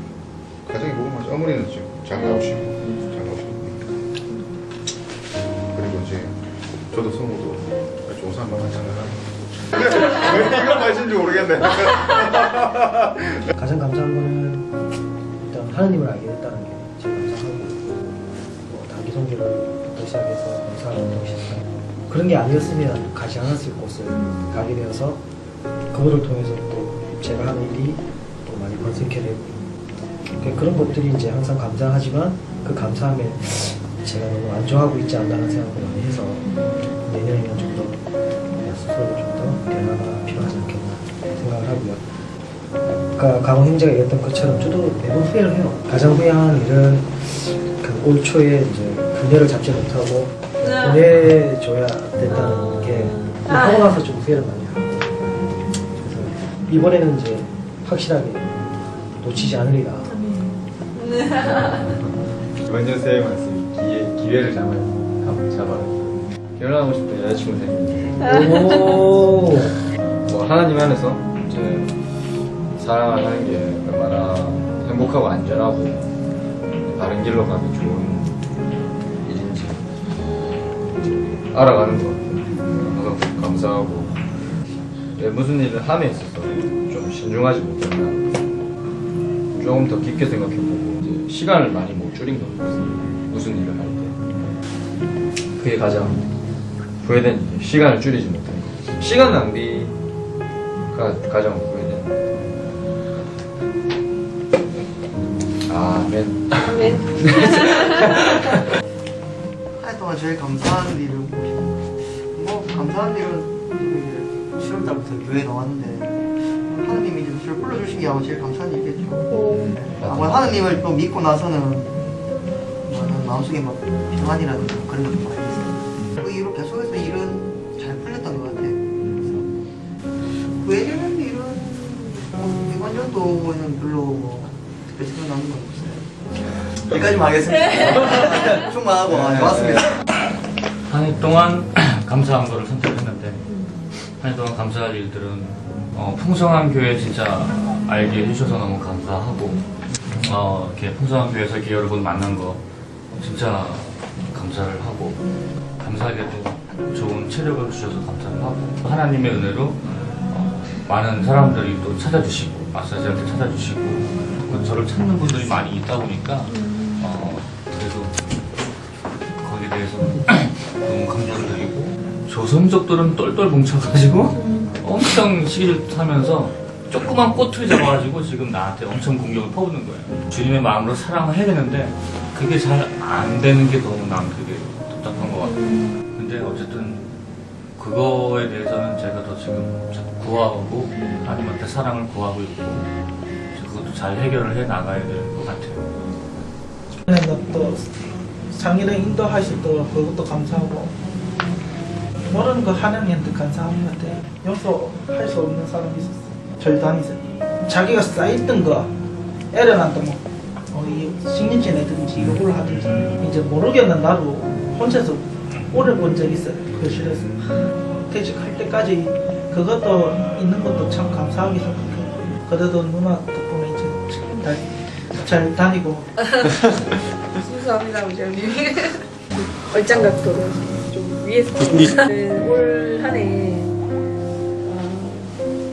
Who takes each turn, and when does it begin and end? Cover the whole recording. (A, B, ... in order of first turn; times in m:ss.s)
0:00.6-0:03.9 A
0:02.2-0:03.1 B
0:05.7-0:06.4 A
0:06.9-0:13.5 A
0:13.6-0:14.7 C
0:15.4-0:17.9 C
0:18.6-0:25.2 C
0:25.9-0:29.7 C
0:30.3-0:42.1 C
0:42.9-0:55.0 C
0:50.6-0:51.0 B
0:53.5-0:53.8 B
0:55.9-1:00.2 C
1:00.1-1:01.8 B
1:01.4-1:08.3 D
1:08.2-1:09.7 C
1:10.2-1:11.9 D
1:12.8-1:16.1 D
1:16.8-1:18.4 D
1:19.2-1:19.8 D
1:20.8-1:24.2 D
1:25.2-1:28.5 D
1:29.5-1:34.2 D
1:35.6-1:36.3 D
1:37.0-1:40.0 D
1:40.9-1:42.2 D
1:45.7-1:48.6 D
1:46.7-1:48.0 B
1:49.7-2:09.6 E
1:59.3-1:59.8 B
2:00.0-2:00.5 D
2:10.3-2:19.9 E
2:19.1-2:19.8 D
2:20.9-2:23.5 F
2:24.2-2:29.6 F
2:30.1-2:35.2 F
2:35.8-2:48.2 F
2:46.6-2:47.0 B
2:49.4-3:07.1 F
2:54.3-2:54.7 B
3:07.8-3:12.9 F
3:13.5-3:15.9 F
3:17.0-3:17.9 G
3:18.5-3:21.0 G
3:22.3-3:28.9 G
3:29.5-3:37.3 G
3:37.9-3:46.1 G
3:47.4-3:49.0 B
3:49.6-3:53.8 B
3:54.6-3:55.4 B